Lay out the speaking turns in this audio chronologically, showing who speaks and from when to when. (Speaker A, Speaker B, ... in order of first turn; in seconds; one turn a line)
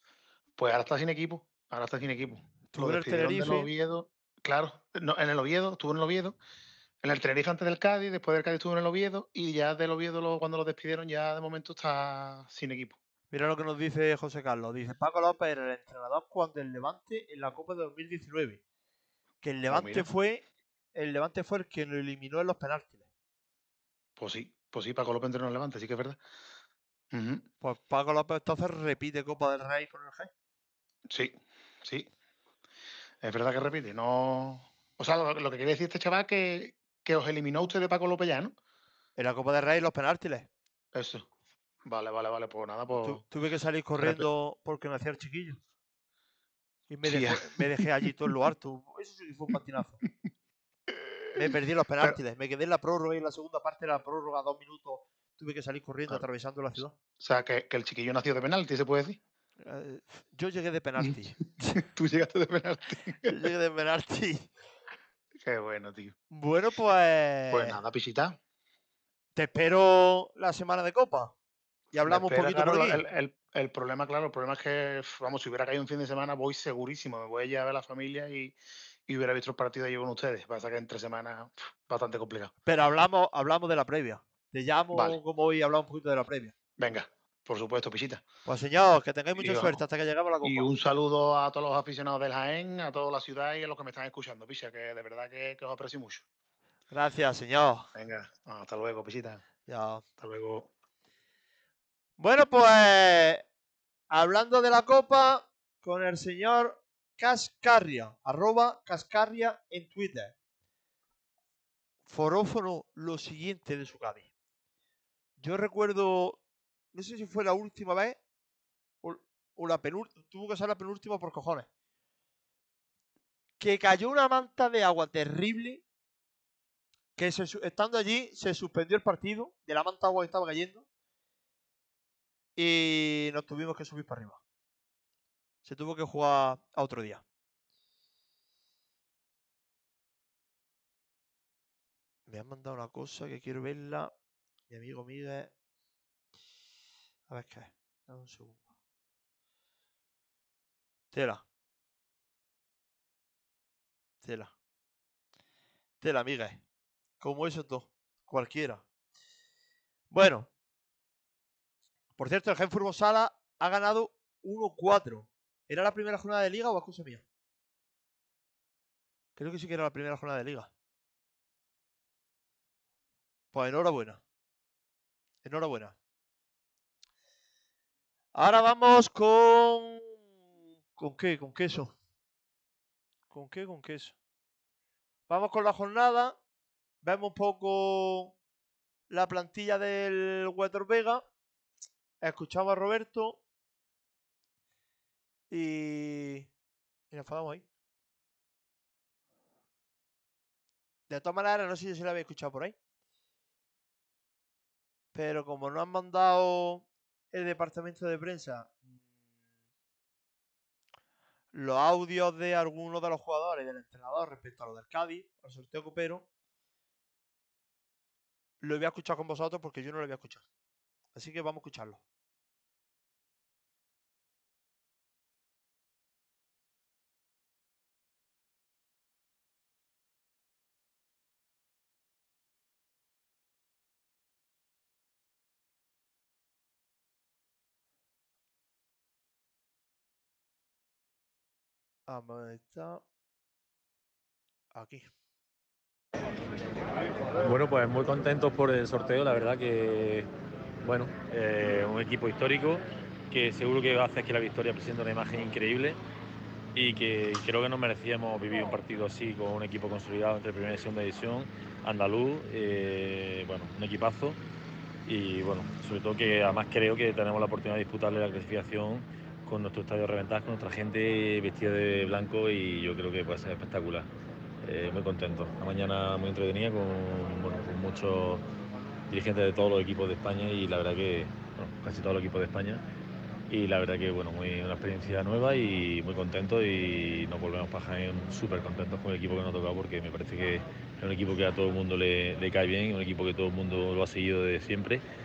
Speaker A: 0.6-6.4
Speaker B: 2.7-3.7
Speaker A: 7.0-12.9
Speaker B: 13.3-18.6
Speaker B: 19.4-20.4
Speaker A: 19.7-20.1
Speaker B: 20.9-23.0
Speaker A: 24.2-26.2
Speaker A: 27.1-27.4
Speaker B: 27.6-30.3
Speaker A: 31.1-32.1
Speaker A: 33.2-38.5
Speaker B: 39.2-40.5
Speaker A: 40.9-41.3
Speaker A: 41.8-43.2
Speaker B: 43.0-45.6
Speaker B: 46.9-50.0
Speaker A: 47.0-47.5
Speaker B: 51.3-57.0
Speaker A: 57.2-59.2
Speaker B: 59.6-61.8
Speaker A: 61.9-63.3
Speaker B: 63.2-64.5
Speaker A: 65.4-66.1
Speaker B: 66.3-67.8
Speaker A: 67.5-68.4
Speaker B: 69.3-71.3
Speaker B: 71.9-73.0
Speaker A: 72.1-78.5
Speaker A: 79.1-82.5
Speaker B: 82.7-86.5
Speaker A: 86.8-88.2
Speaker B: 88.5-90.7
Speaker A: 89.4-89.8
Speaker A: 90.4-96.2
Speaker B: 96.9-97.9
Speaker A: 98.0-99.4
Speaker B: 99.7-100.0
Speaker A: 100.2-100.7
Speaker B: 102.2-103.4
Speaker B: 104.1-110.3
Speaker B: 112.1-114.3
Speaker B: 115.4-116.4
Speaker B: 116.9-118.2
Speaker B: 119.0-121.7
Speaker B: 123.6-125.8
Speaker B: 127.2-130.8
Speaker B: 132.6-134.4
Speaker B: 135.6-137.2
Speaker B: 142.3-144.1
Speaker B: 144.7-145.5
Speaker B: 147.3-148.6
Speaker B: 151.1-151.4
Speaker B: 154.2-154.5
Speaker B: 156.0-156.6
Speaker B: 157.2-158.8
Speaker B: 160.1-160.5
Speaker B: 162.2-167.2
Speaker B: 169.3-170.7
Speaker B: 173.5-174.2
Speaker B: 175.4-175.9
Speaker B: 178.3-180.2
Speaker B: 180.9-181.9
Speaker B: 183.3-184.1
Speaker B: 185.3-186.4
Speaker B: 187.0-188.3
Speaker B: 189.1-191.2
Speaker B: 192.2-193.4
Speaker B: 195.5-196.5
Speaker B: 197.1-197.6
Speaker B: 201.1-202.7
Speaker B: 205.1-209.0
Speaker B: 211.5-216.2
Speaker B: 218.6-220.4
Speaker B: 221.1-222.0
Speaker B: 242.1-243.0
Speaker B: 244.7-245.1
Speaker C: 247.4-250.3
Speaker C: 250.8-256.0
Speaker C: 256.7-264.4
Speaker C: 265.1-274.1
Speaker C: 274.6-278.4
Speaker C: 279.1-282.8
Speaker C: 283.5-295.0